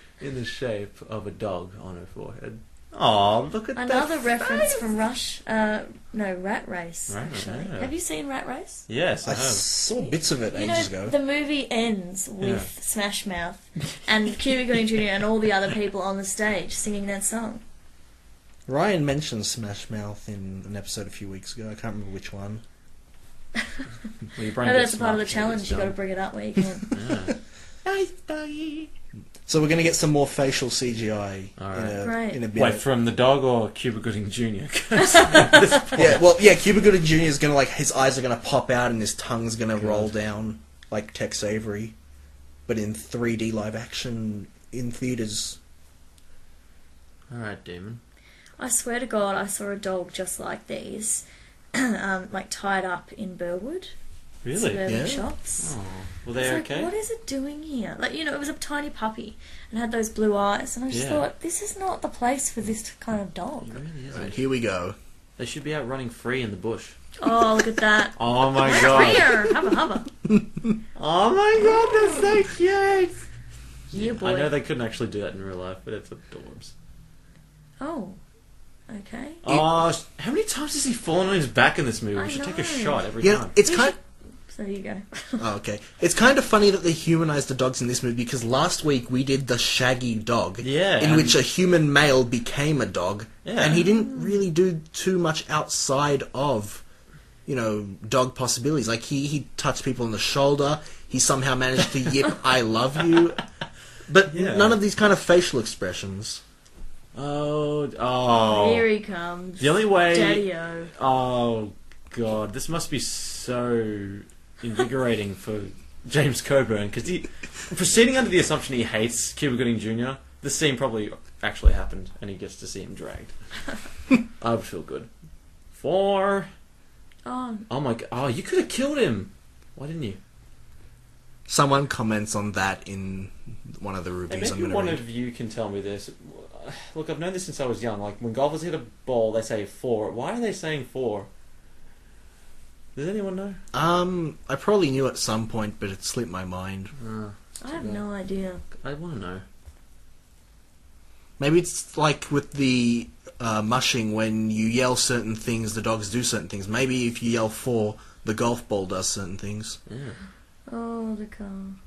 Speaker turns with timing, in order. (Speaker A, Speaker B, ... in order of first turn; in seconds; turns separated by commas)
Speaker A: 0.2-4.8, Speaker B: 3.8-8.8, Speaker A: 7.1-7.9, Speaker A: 8.9-9.6, Speaker C: 9.2-11.2, Speaker B: 10.5-17.6, Speaker A: 12.4-12.7, Speaker C: 18.7-22.6, Speaker A: 24.3-25.9, Speaker B: 24.4-27.0, Speaker A: 26.9-28.9, Speaker C: 29.5-32.8, Speaker A: 31.6-32.0, Speaker B: 32.0-32.4, Speaker A: 32.5-36.2, Speaker B: 35.1-35.8, Speaker C: 35.9-41.9, Speaker A: 39.8-40.1, Speaker C: 42.7-45.6, Speaker A: 47.3-48.0, Speaker B: 48.6-53.9, Speaker A: 54.4-54.8, Speaker B: 54.5-55.7, Speaker C: 54.9-55.2, Speaker A: 55.6-56.9, Speaker B: 56.3-63.8, Speaker A: 60.9-61.3, Speaker A: 63.6-64.4, Speaker C: 64.1-65.0, Speaker A: 65.4-67.0, Speaker B: 67.2-70.1, Speaker A: 68.2-69.5, Speaker C: 70.2-70.8, Speaker A: 71.0-73.2, Speaker A: 73.9-76.7, Speaker B: 73.9-74.5, Speaker B: 77.8-78.2, Speaker B: 78.9-79.4, Speaker A: 79.4-83.5, Speaker B: 82.2-83.1, Speaker C: 83.2-83.9, Speaker B: 83.6-85.4, Speaker C: 85.4-96.8, Speaker A: 90.6-91.4, Speaker A: 93.4-93.9, Speaker B: 93.8-94.4, Speaker C: 97.5-103.4, Speaker C: 104.1-106.4, Speaker A: 104.3-104.8, Speaker A: 107.1-108.9, Speaker B: 108.5-110.9, Speaker A: 109.6-123.3, Speaker A: 124.4-125.1, Speaker A: 125.7-126.5, Speaker B: 127.2-127.7, Speaker A: 127.7-130.2, Speaker C: 131.5-135.0, Speaker A: 134.3-141.3, Speaker A: 142.9-143.6, Speaker C: 143.7-146.9, Speaker A: 146.9-148.0, Speaker B: 147.6-148.6, Speaker A: 148.7-149.4, Speaker C: 151.4-159.8, Speaker A: 159.9-160.2, Speaker B: 160.7-161.8